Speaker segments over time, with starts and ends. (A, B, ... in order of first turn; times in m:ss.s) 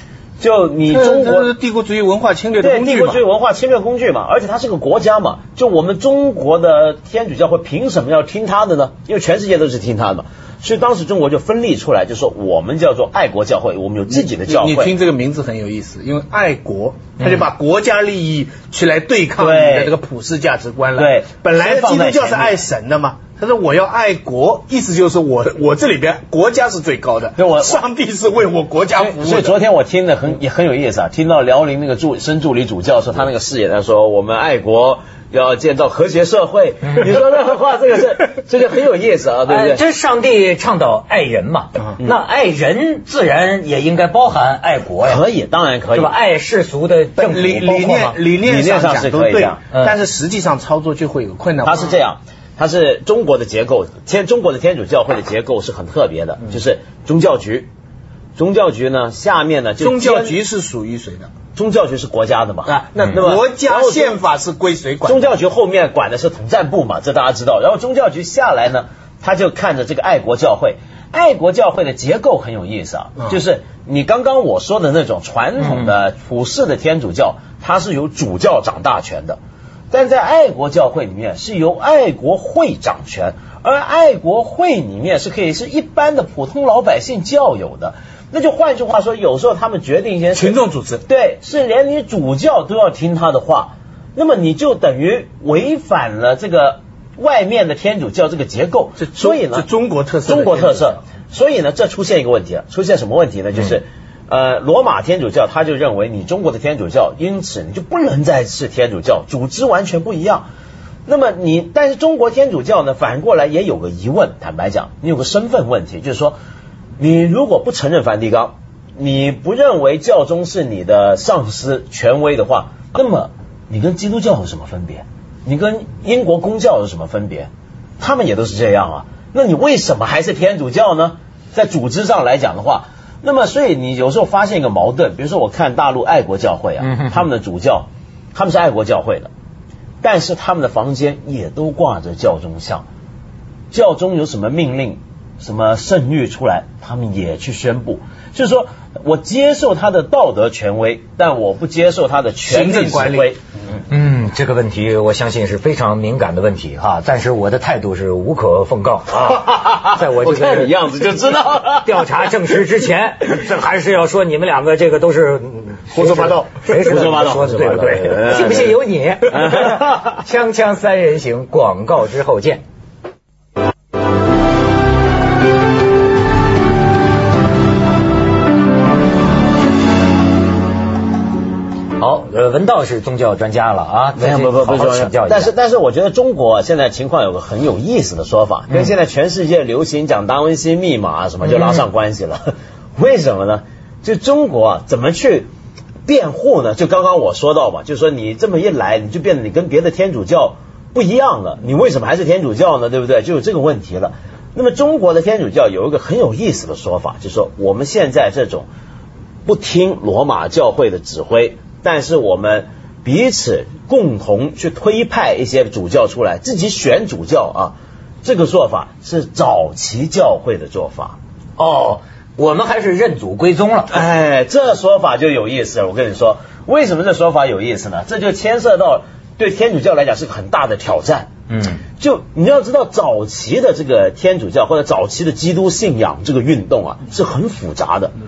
0:00.4-0:01.5 A
0:00.9-0:03.2 B
0:02.6-0:15.0 A
0:14.1-0:29.6 B
0:19.4-0:20.0 A
0:21.0-0:22.6 A
0:27.4-0:27.8 A
0:28.9-0:39.8 A
0:39.5-0:45.2 C
0:45.0-0:46.1 A
0:45.9-0:48.2 C
0:47.2-0:52.0 B
0:48.4-0:49.6 A
0:51.6-0:57.7 A
0:58.4-1:00.4 A
0:59.8-1:01.3 B
1:01.5-1:04.2 A
1:02.6-1:05.4 B
1:05.0-1:19.4 A
1:15.6-1:15.9 C
1:19.9-1:39.7 A
1:30.3-1:31.0 B
1:39.0-1:41.0 B
1:40.2-1:50.5 A
1:51.0-1:56.4 A
1:57.0-2:19.3 A
2:16.8-2:17.2 C
2:20.0-2:22.8 A
2:23.7-2:33.4 A
2:32.4-2:33.3 B
2:33.9-2:40.8 C
2:39.1-2:42.4 A
2:41.8-2:52.6 C
2:45.9-2:46.6 B
2:46.7-2:48.8 A
2:49.3-2:50.2 A
3:02.0-3:05.5 C
3:04.2-3:15.5 A
3:11.4-3:11.8 C
3:16.0-3:28.7 A
3:29.4-3:41.2 A
3:41.6-3:44.0 C
3:43.9-3:51.3 A
3:51.5-3:51.8 C
3:52.0-3:58.1 A